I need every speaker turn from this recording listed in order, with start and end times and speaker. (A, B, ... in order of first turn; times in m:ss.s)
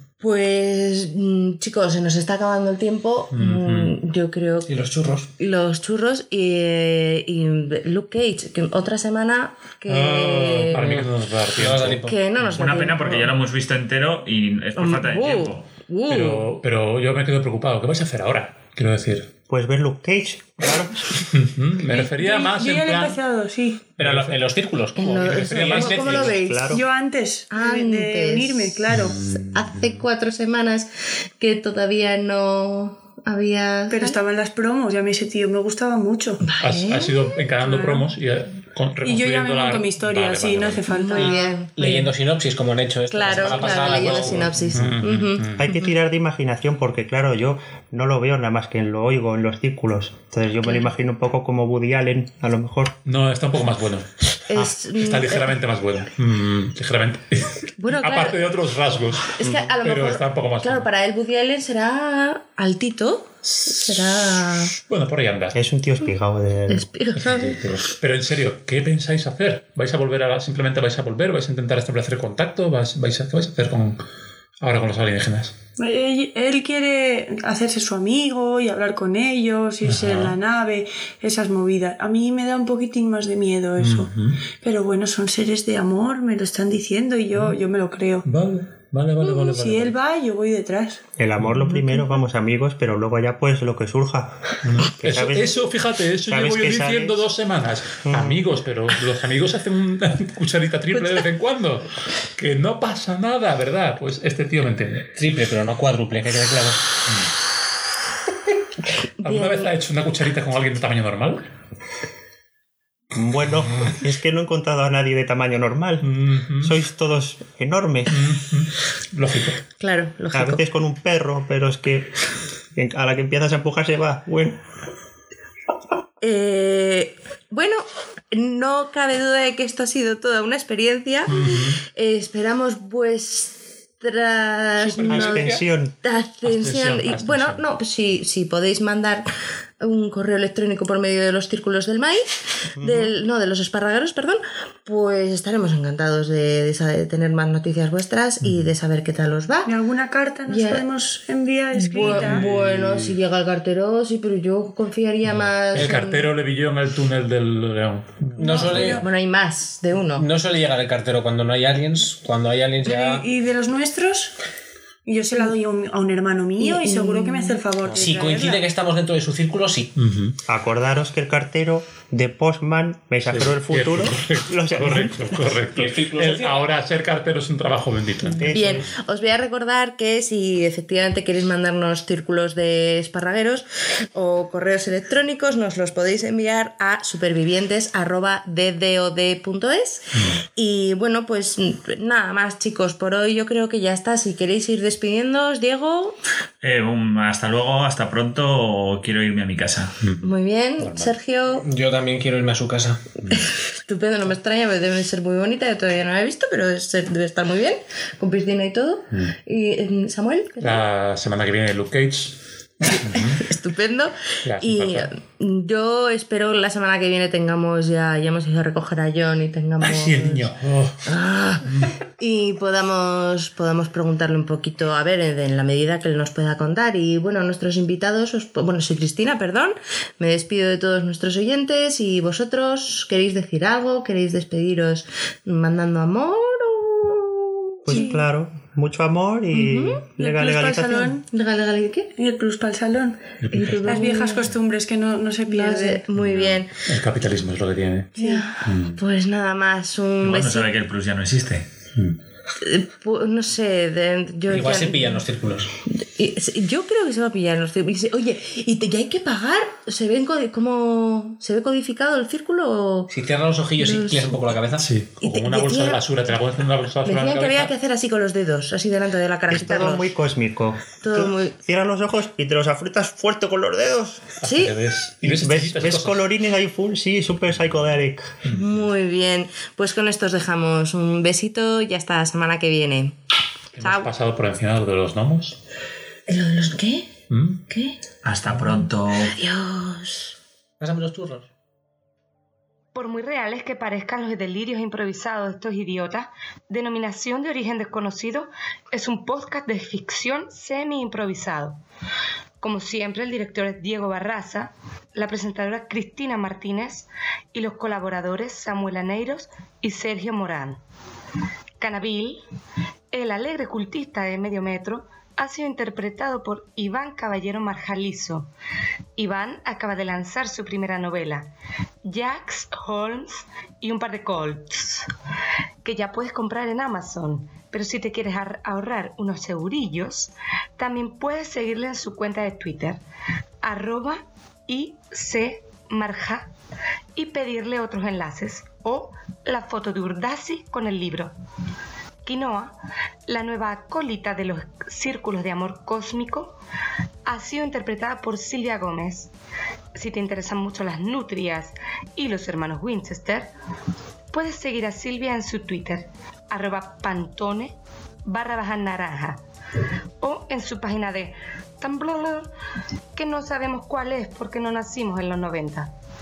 0:00.2-0:04.7 A
0:03.3-0:04.0 B
0:04.7-0:05.3 C
0:05.4-0:10.9 A
0:09.9-0:12.6 B
0:10.8-0:12.2 C
0:12.1-0:13.3 A
0:12.5-0:15.7 D
0:14.8-0:16.5 A
0:16.1-0:19.3 B
0:19.5-0:21.3 E
0:21.3-0:23.2 B
0:22.0-0:24.0 F
0:24.0-0:26.4 C
0:24.0-0:24.4 B
0:25.0-0:26.8 A
0:25.2-0:26.4 B
0:26.4-0:26.8 E
0:26.7-0:29.2 F
0:27.5-0:34.2 A
0:28.9-0:29.9 B
0:33.9-0:36.5 F
0:36.4-0:37.2 A
0:36.6-0:41.0 B
0:37.6-0:38.1 F
0:39.0-0:41.6 F
0:40.9-0:42.1 A
0:41.8-0:44.8 C
0:43.1-0:45.9 A
0:43.5-0:45.7 B
0:45.6-0:53.0 E
0:50.6-0:50.9 A
0:53.0-1:00.9 B
0:54.5-0:55.6 A
0:57.8-0:58.5 A
0:59.4-1:04.8 A
1:04.9-1:05.6 B
1:05.6-1:06.9 E
1:06.7-1:07.6 A
1:07.2-1:14.0 B
1:14.6-1:15.6 B
1:15.8-1:28.3 F
1:19.8-1:20.4 B
1:23.8-1:24.4 B
1:28.2-1:30.0 B
1:29.2-1:31.0 F
1:31.2-1:35.6 E
1:31.4-1:31.8 B
1:34.6-1:45.1 B
1:36.3-1:37.3 E
1:38.0-1:38.4 E
1:45.2-1:46.8 C
1:49.2-1:51.5 B
1:49.2-1:49.7 A
1:53.1-1:58.3 E
1:56.0-1:56.8 B
1:58.1-1:59.6 B
1:59.8-2:00.6 A
2:00.3-2:02.2 E
2:02.8-2:04.6 E
2:06.2-2:19.3 A
2:11.3-2:11.8 B
2:14.9-2:15.6 B
2:15.1-2:15.9 E
2:16.4-2:17.6 B
2:19.8-2:29.7 A
2:22.8-2:23.2 E
2:28.4-2:28.7 B
2:29.6-2:32.5 F
2:30.5-2:30.8 A
2:31.7-2:36.3 A
2:31.9-2:33.2 B
2:35.7-2:38.9 B
2:38.4-2:39.0 C
2:38.4-2:39.0 F
2:39.0-2:40.3 A
2:40.2-2:43.2 C
2:42.8-2:44.4 F
2:45.0-2:48.6 F
2:46.6-2:47.6 A
2:47.9-2:49.9 C
2:50.0-2:50.4 B
2:50.5-2:55.6 E
2:53.3-2:58.9 B
2:55.7-2:56.7 C
2:58.4-2:58.9 E
2:58.5-3:16.2 A
3:10.2-3:10.4 B
3:16.6-3:20.0 D
3:20.0-3:21.1 B
3:20.2-3:21.7 A
3:21.6-3:23.0 C
3:23.3-3:30.8 A
3:30.6-3:32.4 B
3:32.9-3:33.5 B
3:32.9-3:40.5 A
3:34.4-3:35.1 B
3:39.8-3:41.1 B
3:41.0-3:41.7 A
3:41.6-3:42.0 B
3:42.2-3:58.1 A
3:57.9-4:01.2 E
3:57.9-3:58.2 F
3:59.5-4:00.0 A
4:00.2-4:01.2 F
4:01.3-4:02.1 A
4:02.2-4:03.2 F
4:03.4-4:04.4 B
4:03.5-4:04.5 A
4:03.8-4:06.1 F
4:05.5-4:06.7 A
4:06.2-4:09.0 B
4:08.2-4:08.5 F
4:08.2-4:10.7 A
4:10.2-4:11.7 D
4:12.6-4:15.2 A
4:14.5-4:15.7 C
4:15.9-4:23.1 A
4:23.1-4:24.9 C
4:23.8-4:24.6 A
4:24.8-4:27.7 B
4:25.2-4:26.0 A
4:27.0-4:30.1 A
4:29.5-4:34.4 E
4:31.0-4:31.6 A
4:34.4-4:36.3 B
4:34.4-4:34.8 A
4:35.2-4:38.4 E
4:38.5-4:43.2 A
4:43.8-4:45.6 B
4:43.8-4:44.1 A
4:46.3-4:47.2 A
4:47.3-4:47.6 B
4:47.7-4:48.0 A
4:48.2-4:49.3 D
4:49.3-4:50.3 A
4:50.8-4:51.5 C
4:52.9-5:01.8 G
5:02.6-5:10.8 G
5:11.8-5:12.4 G
5:13.1-5:18.5 G
5:19.2-5:21.5 G
5:22.0-5:25.1 G
5:25.8-5:33.0 G
5:33.6-5:36.5 G
5:37.2-5:41.4 G
5:42.2-5:46.6 G
5:47.3-5:49.3 G
5:49.9-5:53.5 G
5:54.3-5:59.4 G
6:00.2-6:02.5 G
6:03.1-6:05.9 G